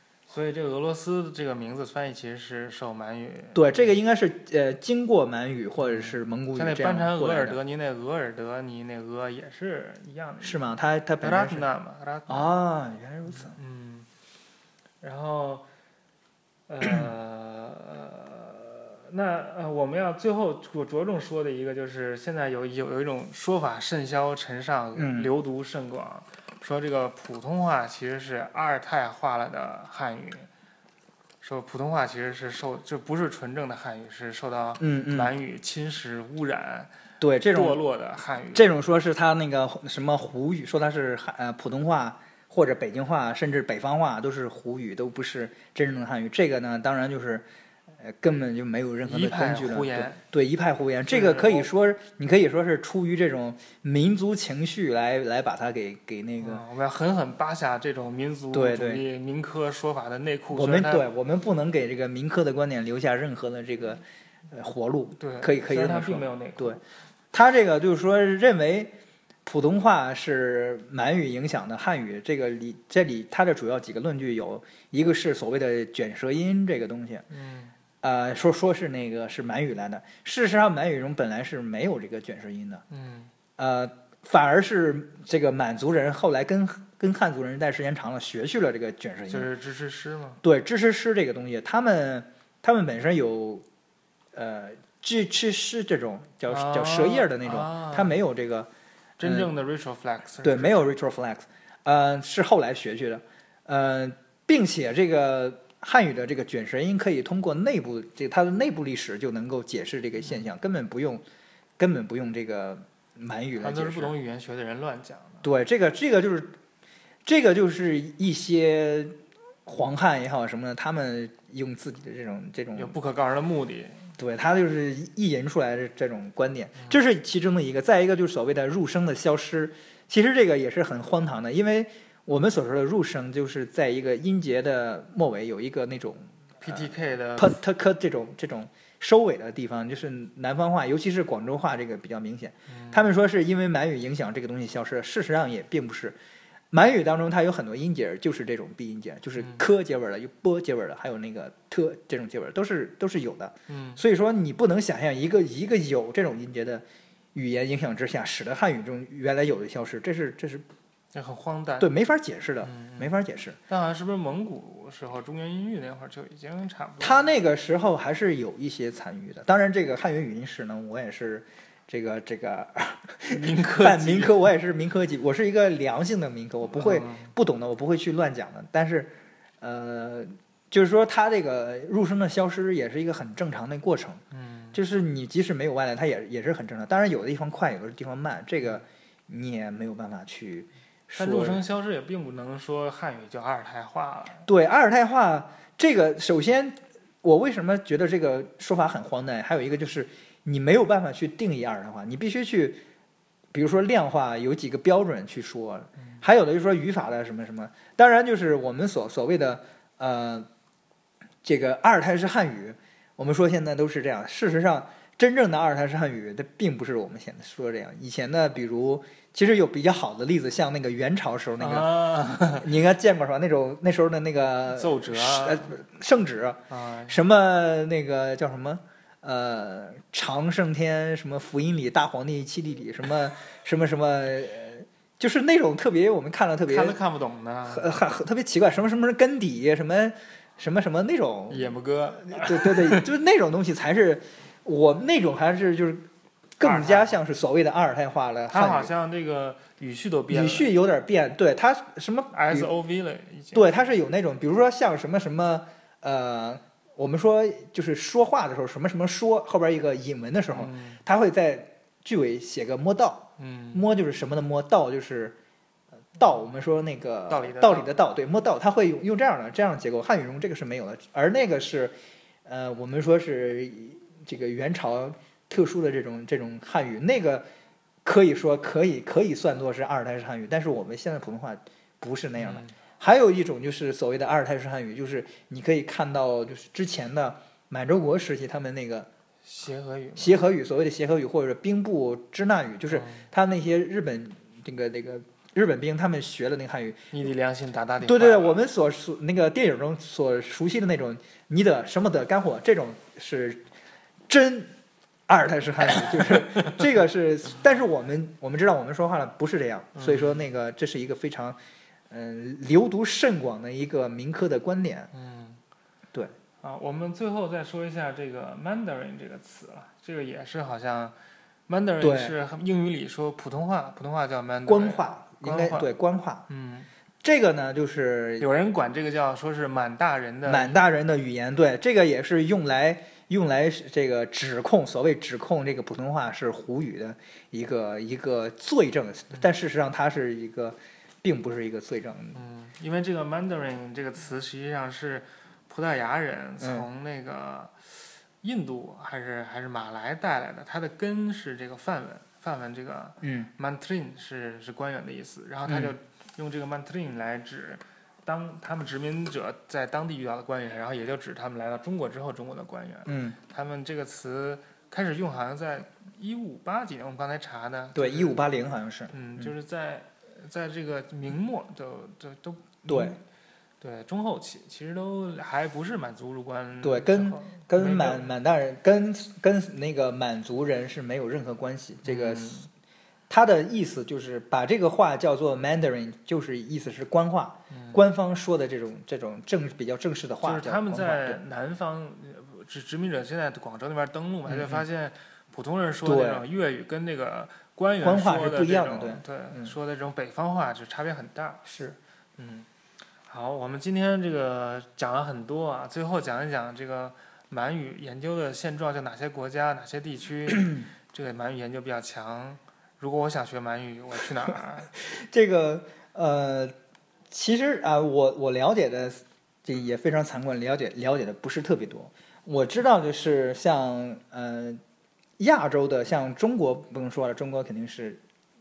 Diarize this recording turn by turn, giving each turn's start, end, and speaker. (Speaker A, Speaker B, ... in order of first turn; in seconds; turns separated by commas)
Speaker A: 0.3-3.9, Speaker B: 3.5-7.6, Speaker A: 5.8-10.7, Speaker B: 10.4-11.7, Speaker A: 11.2-12.5, Speaker B: 12.3-13.6, Speaker A: 13.3-14.1, Speaker A: 15.0-15.7, Speaker A: 16.7-30.5, Speaker B: 24.9-25.3, Speaker A: 31.4-36.9, Speaker B: 34.8-35.3, Speaker B: 37.2-37.8, Speaker A: 37.5-38.7, Speaker B: 38.5-47.5, Speaker B: 48.0-56.6, Speaker A: 49.0-50.2, Speaker A: 51.1-51.7, Speaker A: 56.4-61.1, Speaker B: 58.5-59.0, Speaker B: 60.5-66.8, Speaker A: 65.2-66.8, Speaker B: 67.3-68.9, Speaker B: 69.5-77.2, Speaker A: 77.3-77.7, Speaker B: 78.0-82.8, Speaker A: 82.9-83.3, Speaker B: 83.6-89.5, Speaker A: 89.3-90.4, Speaker B: 90.4-93.7, Speaker B: 94.3-98.7, Speaker A: 96.5-98.2, Speaker A: 99.2-100.9, Speaker B: 99.2-99.5, Speaker B: 100.4-111.2, Speaker B: 111.8-114.1, Speaker A: 113.6-115.5, Speaker B: 115.4-116.6, Speaker B: 117.2-119.2, Speaker B: 119.7-123.0, Speaker A: 122.8-124.1, Speaker B: 124.2-146.2, Speaker A: 136.6-137.6, Speaker A: 142.7-143.0, Speaker B: 146.7-160.7, Speaker A: 153.7-154.0, Speaker A: 161.1-161.9, Speaker B: 161.8-163.6, Speaker A: 162.6-163.1, Speaker A: 163.7-167.3, Speaker B: 167.0-184.2, Speaker A: 173.3-174.5, Speaker A: 176.7-177.3, Speaker A: 184.3-184.8, Speaker B: 184.7-191.6, Speaker A: 191.2-194.5, Speaker B: 194.5-202.8, Speaker B: 203.5-210.5, Speaker B: 211.4-237.0, Speaker A: 221.6-222.7, Speaker A: 224.7-225.8, Speaker A: 226.7-227.2, Speaker A: 236.7-237.9, Speaker B: 237.7-246.1, Speaker A: 241.5-243.1, Speaker B: 246.6-248.9, Speaker A: 246.6-247.2, Speaker A: 248.5-250.7, Speaker B: 250.3-252.7, Speaker A: 252.3-253.7, Speaker B: 253.5-265.4, Speaker A: 260.5-261.0, Speaker A: 263.4-263.8, Speaker B: 266.2-271.9, Speaker A: 267.3-267.9, Speaker B: 272.5-277.5, Speaker B: 278.0-289.1, Speaker A: 282.4-282.8, Speaker A: 289.4-290.4, Speaker B: 290.2-297.0, Speaker A: 292.9-293.2, Speaker A: 297.1-298.6, Speaker B: 298.0-303.6, Speaker B: 304.3-304.7, Speaker B: 305.3-311.6, Speaker A: 306.1-306.8, Speaker A: 309.9-310.4, Speaker B: 312.1-315.1, Speaker A: 315.1-315.6, Speaker A: 316.6-321.1, Speaker A: 321.7-325.9, Speaker B: 322.0-322.4, Speaker B: 324.7-326.5, Speaker A: 326.5-326.9, Speaker B: 327.2-328.5, Speaker A: 328.4-330.8, Speaker B: 330.5-342.4, Speaker A: 342.4-368.4, Speaker B: 346.6-346.9, Speaker B: 353.2-353.5, Speaker B: 355.7-355.9, Speaker B: 363.1-363.4, Speaker B: 367.9-369.5, Speaker A: 369.1-373.2, Speaker B: 372.9-373.2, Speaker A: 373.8-378.3, Speaker B: 376.8-382.6, Speaker A: 382.1-382.7, Speaker B: 383.3-391.4, Speaker A: 387.7-388.0, Speaker A: 390.4-401.7, Speaker B: 394.5-394.8, Speaker B: 396.1-396.4, Speaker B: 398.0-399.8, Speaker B: 401.6-402.0, Speaker A: 402.4-402.7, Speaker A: 403.3-414.9, Speaker B: 415.0-416.7, Speaker B: 417.3-424.8, Speaker B: 425.4-428.2